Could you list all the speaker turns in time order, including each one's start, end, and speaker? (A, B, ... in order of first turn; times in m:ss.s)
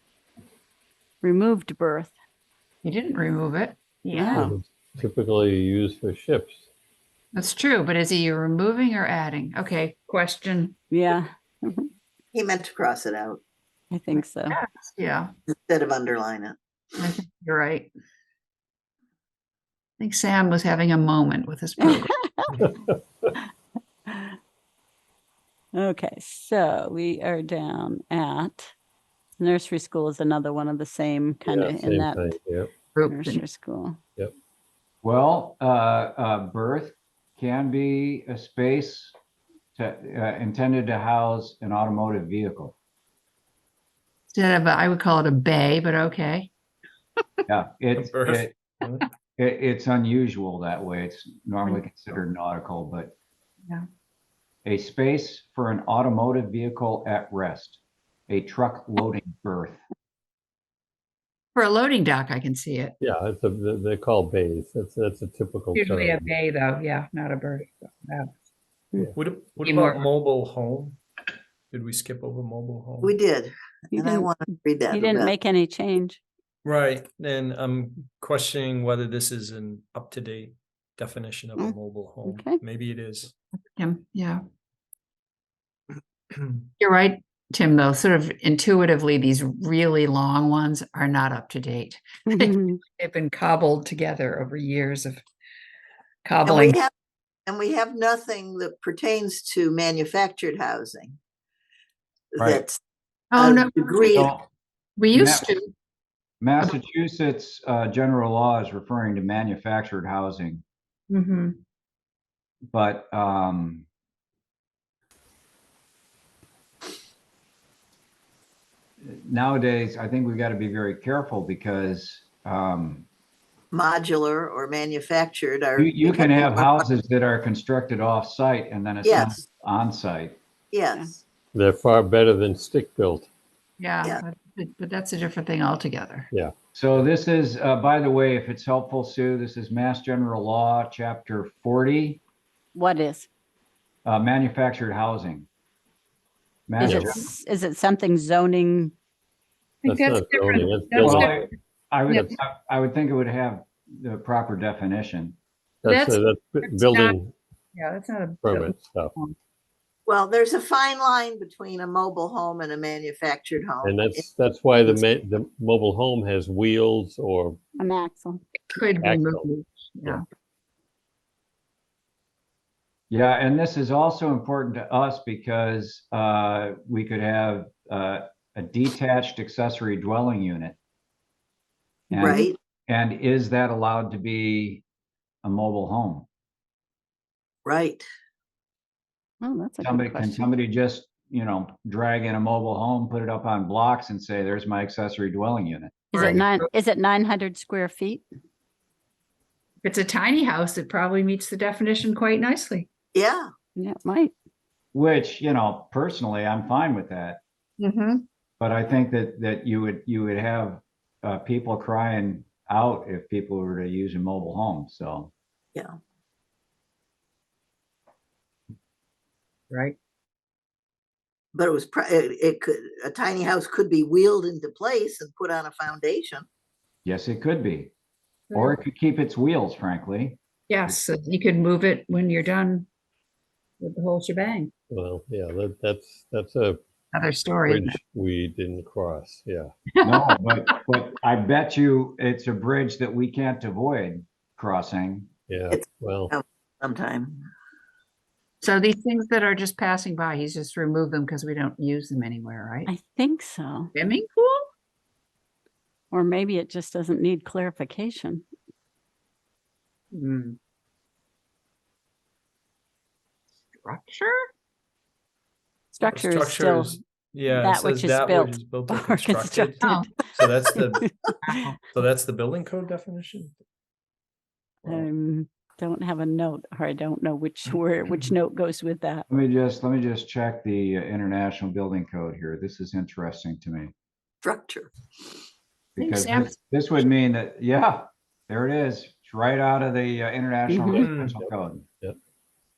0:01.2-0:02.1 A
0:02.8-0:04.5 B
0:04.1-0:04.5 A
0:04.3-0:06.6 C
0:07.3-0:10.8 B
0:10.9-0:11.9 A
0:12.3-0:13.4 D
0:13.9-0:14.6 A
0:14.1-0:15.3 B
0:15.5-0:16.6 D
0:17.0-0:17.9 B
0:20.0-0:22.1 B
0:21.8-0:22.5 A
0:22.6-0:23.3 C
0:24.1-0:24.4 A
0:25.7-0:28.7 A
0:29.4-0:32.3 A
0:31.4-0:32.7 C
0:32.9-0:33.4 B
0:33.1-0:34.0 A
0:35.0-0:39.1 E
0:39.8-0:42.7 E
0:44.3-0:46.5 B
0:47.5-0:48.5 E
0:47.9-0:49.0 F
0:49.4-0:53.1 E
0:54.6-0:59.8 E
1:01.5-1:03.0 B
1:03.0-1:06.3 C
1:05.7-1:08.3 B
1:09.1-1:11.0 F
1:09.6-1:10.0 B
1:11.7-1:13.1 F
1:13.0-1:15.3 D
1:13.9-1:14.3 A
1:14.9-1:16.2 A
1:16.6-1:23.3 F
1:21.6-1:22.6 A
1:23.7-1:24.4 B
1:26.8-1:35.2 B
1:32.3-1:32.8 A
1:36.2-1:36.8 B
1:36.4-1:36.9 D
1:37.5-1:41.2 D
1:42.3-1:42.8 D
1:42.4-1:42.6 E
1:43.3-1:44.4 B
1:43.4-1:44.3 D
1:44.1-1:44.4 E
1:45.0-1:45.7 B
1:45.1-1:45.5 E
1:46.4-1:50.6 E
1:51.1-1:51.6 B
1:52.6-1:53.8 E
1:59.0-2:03.0 E
2:03.7-2:06.8 D
2:05.8-2:10.4 E
2:09.0-2:09.4 D
2:10.7-2:11.2 D
2:11.5-2:13.3 C
2:13.8-2:16.3 B
2:16.7-2:22.2 E
2:22.7-2:23.3 A
2:24.0-2:25.5 E
2:26.7-2:27.3 E
2:26.8-2:28.9 A
2:26.8-2:27.1 C
2:29.8-2:31.5 B
2:29.8-2:31.4 C
2:31.0-2:35.4 E
2:35.8-2:37.3 C
2:35.8-2:37.2 B
2:37.7-2:39.3 B
2:38.4-2:39.1 C
2:40.1-2:44.2 D
2:43.8-2:47.6 C
2:47.8-2:48.4 A
2:48.7-2:50.2 B
2:49.0-2:49.5 C
2:53.1-3:00.8 E
3:02.1-3:04.8 E
3:02.1-3:02.6 D
3:05.4-3:06.3 E
3:07.6-3:08.0 D
3:09.4-3:10.5 A
3:09.8-3:16.4 E
3:16.1-3:18.2 A
3:16.1-3:16.7 B
3:19.8-3:22.9 B
3:23.1-3:23.5 D
3:23.8-3:24.3 A
3:24.9-3:27.4 E
3:27.8-3:28.2 B
3:28.6-3:35.3 E
3:39.7-3:40.0 B
3:41.5-3:46.4 D
3:47.0-3:47.9 E
3:48.5-3:48.8 B
3:48.5-3:51.0 E
3:50.7-3:52.9 B
3:53.8-3:54.7 B
3:54.9-3:56.8 C
3:57.1-3:58.0 B
3:57.6-3:59.7 C
3:59.9-4:00.3 B
4:00.0-4:05.3 E
4:05.5-4:06.3 C
4:05.7-4:07.4 D
4:08.6-4:12.9 B
4:12.9-4:13.9 A
4:13.9-4:14.6 B
4:16.1-4:18.4 A
4:20.1-4:20.6 B
4:23.7-4:24.5 B
4:25.9-4:30.1 A
4:26.0-4:31.1 F
4:29.8-4:30.1 B
4:31.4-4:31.8 B
4:31.9-4:33.6 F
4:34.8-4:39.3 A
4:39.3-4:43.9 E
4:44.4-4:44.9 D
4:46.0-4:51.8 E
4:46.0-4:46.5 B
4:50.7-4:51.1 A
4:51.0-4:51.4 F